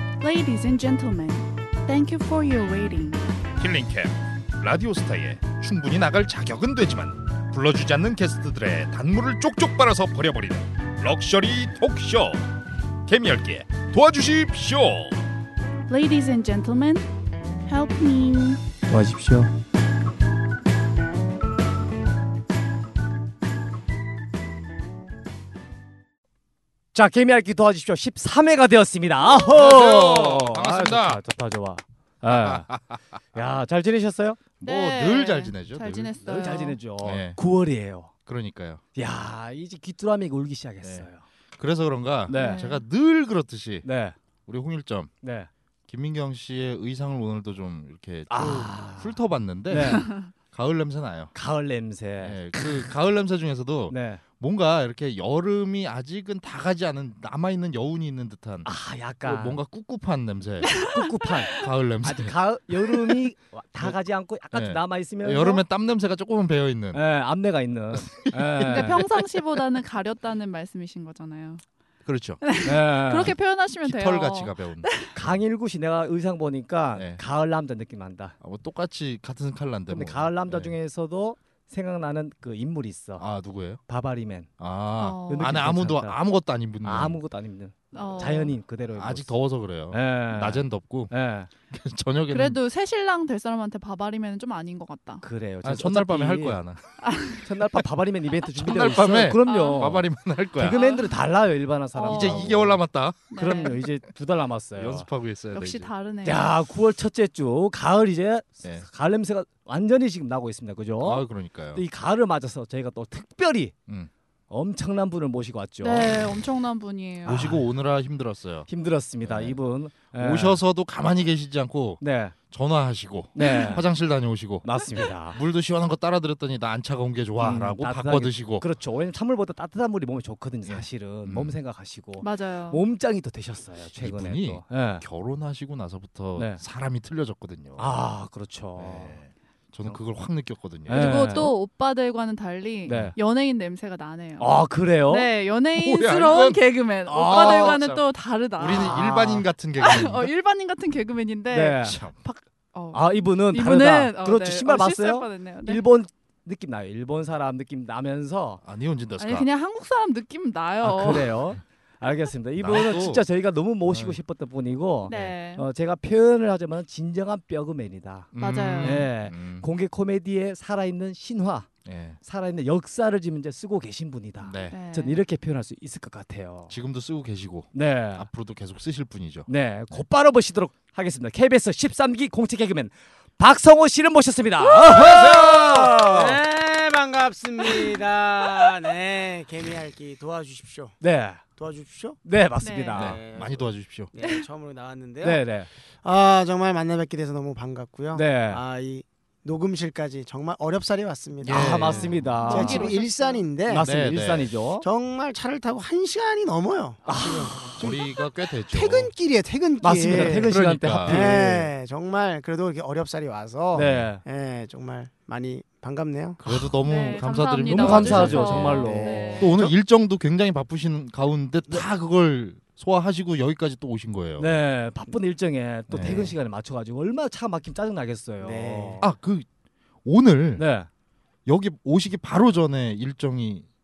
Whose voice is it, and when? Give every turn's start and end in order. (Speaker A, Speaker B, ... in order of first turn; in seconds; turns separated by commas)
Speaker A: 0.2-3.2, Speaker B: 3.6-12.5, Speaker B: 13.1-15.2, Speaker A: 15.9-17.1, Speaker A: 17.7-18.6, Speaker C: 18.9-19.5, Speaker C: 26.9-32.7, Speaker B: 29.4-31.2, Speaker B: 32.2-33.2, Speaker C: 33.3-34.4, Speaker B: 34.6-36.1, Speaker A: 34.6-36.8, Speaker C: 36.2-38.1, Speaker B: 37.0-37.4, Speaker B: 38.2-38.8, Speaker C: 38.9-41.2, Speaker B: 41.6-43.9, Speaker C: 42.3-42.7, Speaker A: 42.3-42.8, Speaker C: 43.8-44.2, Speaker B: 44.5-45.1, Speaker C: 45.2-45.5, Speaker B: 45.9-51.3, Speaker C: 48.3-49.2, Speaker D: 48.4-48.7, Speaker C: 49.7-50.1, Speaker C: 51.3-52.4, Speaker B: 52.2-58.7, Speaker C: 53.9-54.2, Speaker C: 58.6-59.6, Speaker B: 59.2-60.9, Speaker A: 60.6-61.7, Speaker C: 60.8-65.6, Speaker B: 61.5-62.3, Speaker B: 64.5-67.0, Speaker C: 66.9-69.0, Speaker B: 67.9-69.2, Speaker A: 68.6-71.6, Speaker B: 72.0-72.4, Speaker A: 72.4-75.1, Speaker C: 72.6-73.3, Speaker B: 73.8-74.9, Speaker C: 75.1-78.3, Speaker B: 76.9-77.2, Speaker B: 78.4-80.7, Speaker C: 79.9-83.2, Speaker B: 83.2-83.8, Speaker C: 83.9-84.5, Speaker B: 84.6-87.2, Speaker A: 85.0-85.5, Speaker C: 85.3-86.2, Speaker C: 86.8-89.3, Speaker A: 87.9-88.5, Speaker B: 89.0-91.1, Speaker C: 89.9-91.5, Speaker B: 91.7-92.6, Speaker A: 92.3-95.2, Speaker C: 95.2-96.6, Speaker B: 95.6-96.8, Speaker A: 97.0-97.4, Speaker C: 97.4-100.1, Speaker B: 98.6-100.8, Speaker A: 99.4-100.0, Speaker C: 100.6-102.8, Speaker A: 100.6-101.1, Speaker A: 101.9-102.5, Speaker B: 102.0-103.7, Speaker A: 103.3-103.8, Speaker C: 103.3-105.1, Speaker B: 104.8-105.9, Speaker A: 105.5-106.5, Speaker C: 106.2-113.7, Speaker B: 111.0-111.8, Speaker C: 114.5-116.2, Speaker A: 115.8-117.5, Speaker B: 117.2-118.7, Speaker C: 117.3-117.6, Speaker C: 118.7-120.6, Speaker B: 119.2-128.7, Speaker C: 122.0-122.3, Speaker C: 123.3-123.8, Speaker A: 123.4-123.8, Speaker C: 124.6-125.4, Speaker C: 127.4-135.0, Speaker B: 130.7-131.5, Speaker A: 132.2-132.8, Speaker B: 134.0-137.9, Speaker C: 136.3-136.6, Speaker C: 137.8-139.2, Speaker B: 138.8-141.4, Speaker C: 140.9-141.5, Speaker A: 140.9-149.3, Speaker C: 142.9-143.2, Speaker B: 142.9-143.2, Speaker C: 144.4-145.3, Speaker B: 145.8-146.6, Speaker C: 147.1-148.0, Speaker B: 147.2-148.0, Speaker B: 148.6-150.3, Speaker C: 148.7-149.4, Speaker A: 149.8-155.8, Speaker C: 151.5-152.0, Speaker B: 151.8-152.1, Speaker C: 152.9-158.6, Speaker B: 158.6-159.5, Speaker A: 159.2-161.5, Speaker C: 160.8-171.7, Speaker B: 162.6-163.2, Speaker B: 163.9-164.2, Speaker A: 165.1-165.6, Speaker B: 165.1-165.3, Speaker B: 168.3-169.7, Speaker A: 168.4-169.0, Speaker B: 171.8-172.2, Speaker C: 172.2-176.7, Speaker A: 174.5-175.2, Speaker B: 174.5-174.8, Speaker B: 176.7-180.0, Speaker C: 177.7-178.3, Speaker C: 179.5-186.4, Speaker B: 184.9-185.9, Speaker D: 185.2-191.0, Speaker C: 191.0-191.4, Speaker D: 191.6-192.2, Speaker C: 192.2-193.2, Speaker A: 192.6-193.1, Speaker D: 192.9-195.4, Speaker B: 192.9-194.1, Speaker A: 194.2-194.4, Speaker C: 195.2-195.7, Speaker D: 196.0-203.9, Speaker C: 198.1-198.6, Speaker B: 201.4-202.3, Speaker C: 201.5-202.9, Speaker A: 201.8-203.4, Speaker C: 203.7-204.8, Speaker B: 203.8-204.5, Speaker D: 204.8-208.1, Speaker C: 207.1-207.9, Speaker B: 207.8-209.1, Speaker D: 208.7-210.5, Speaker C: 209.8-211.7, Speaker B: 210.1-211.3, Speaker D: 211.1-216.4, Speaker C: 213.8-214.2, Speaker B: 216.4-224.5, Speaker A: 216.8-219.6, Speaker C: 217.7-219.7, Speaker D: 218.8-219.7, Speaker C: 224.4-229.0, Speaker B: 225.9-226.3, Speaker D: 225.9-226.3, Speaker D: 228.4-229.0, Speaker B: 229.0-229.4, Speaker B: 230.0-230.7, Speaker C: 230.6-230.9, Speaker B: 231.4-233.7